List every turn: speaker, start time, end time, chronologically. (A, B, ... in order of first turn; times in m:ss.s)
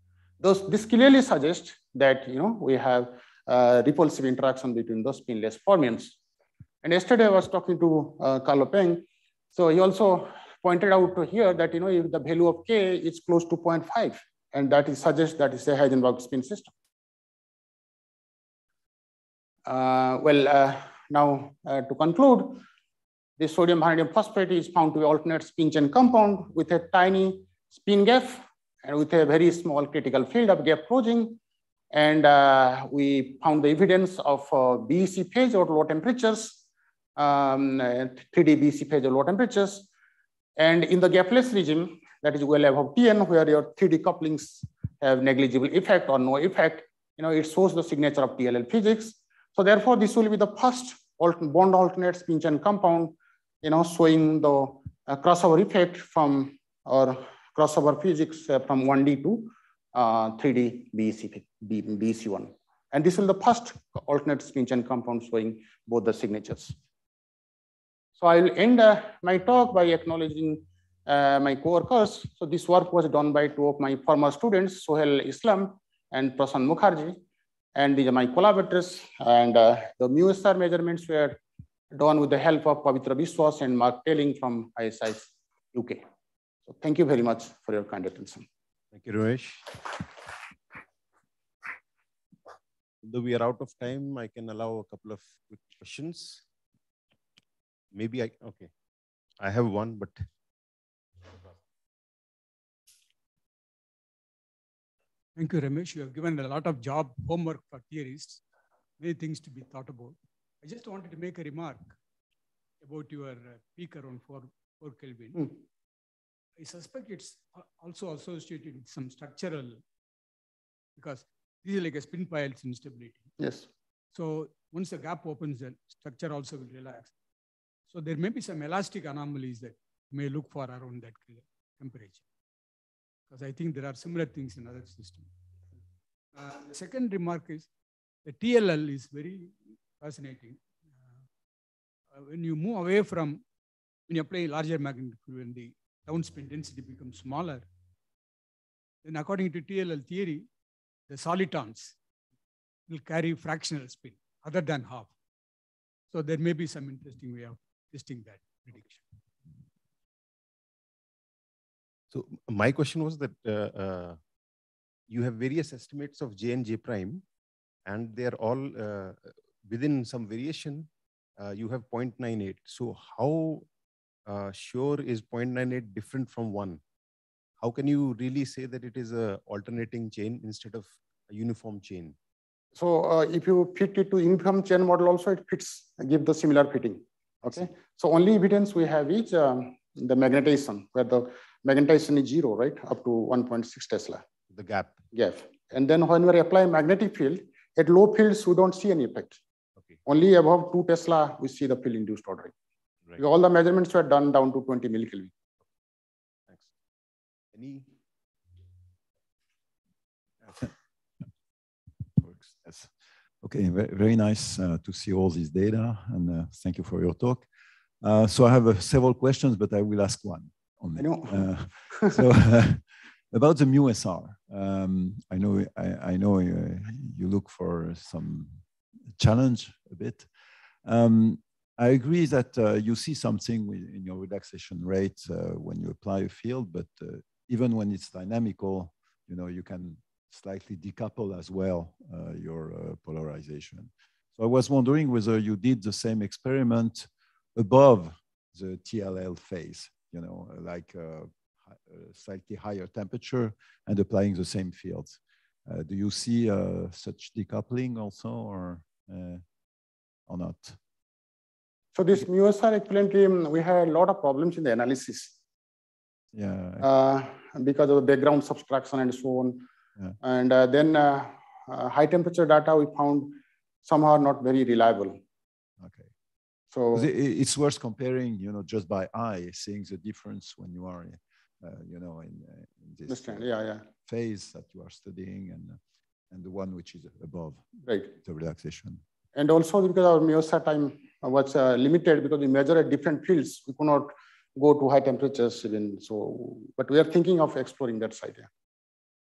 0:00.4-0:06.2 A
0:06.8-0:16.7 A
0:19.7-0:22.6 A
0:23.4-0:31.4 A
0:31.9-0:36.6 A
0:37.2-0:39.9 A
0:40.6-1:06.8 A
1:08.2-1:17.2 A
1:17.8-1:21.4 A
1:21.9-1:26.0 A
1:26.7-1:28.4 A
1:28.9-1:30.0 B
1:33.0-1:36.4 B
1:37.9-1:38.7 B
1:39.4-1:40.3 B
1:41.3-1:41.5 B
1:45.4-1:48.4 C
1:49.0-1:51.9 C
1:52.8-1:55.5 C
1:56.6-1:59.8 C
2:01.0-2:03.3 C
2:03.4-2:03.7 A
2:04.1-2:07.1 C
2:07.9-2:12.2 C
2:13.3-2:15.3 C
2:16.4-2:17.7 C
2:18.2-2:20.6 C
2:22.1-2:23.4 C
2:24.1-2:27.7 C
2:29.0-2:30.5 C
2:31.1-2:32.0 C
2:32.9-2:35.1 C
2:36.1-2:39.0 C
2:42.1-2:44.2 B
2:45.1-2:47.2 B
2:47.8-2:53.7 B
2:54.3-2:56.8 B
2:57.6-3:02.2 B
3:02.8-3:14.2 A
3:14.5-3:15.0 B
3:15.1-3:19.4 A
3:20.0-3:22.5 A
3:23.2-3:25.3 A
3:27.5-3:27.9 B
3:32.2-3:32.9 D
3:33.4-3:37.5 D
3:38.0-3:48.6 D
3:41.0-3:42.2 A
3:49.2-3:50.3 D
3:50.8-4:19.4 D
4:20.3-4:20.8 D
4:22.0-4:25.3 A
4:26.3-4:26.8 D
4:26.8-4:29.6 A
4:30.2-4:35.2 A
4:35.8-4:36.1 D
4:36.7-4:37.1 A
4:36.9-4:43.5 D
4:43.1-4:43.8 A
4:44.0-4:45.8 D
4:46.3-4:49.0 D
4:49.4-4:58.5 A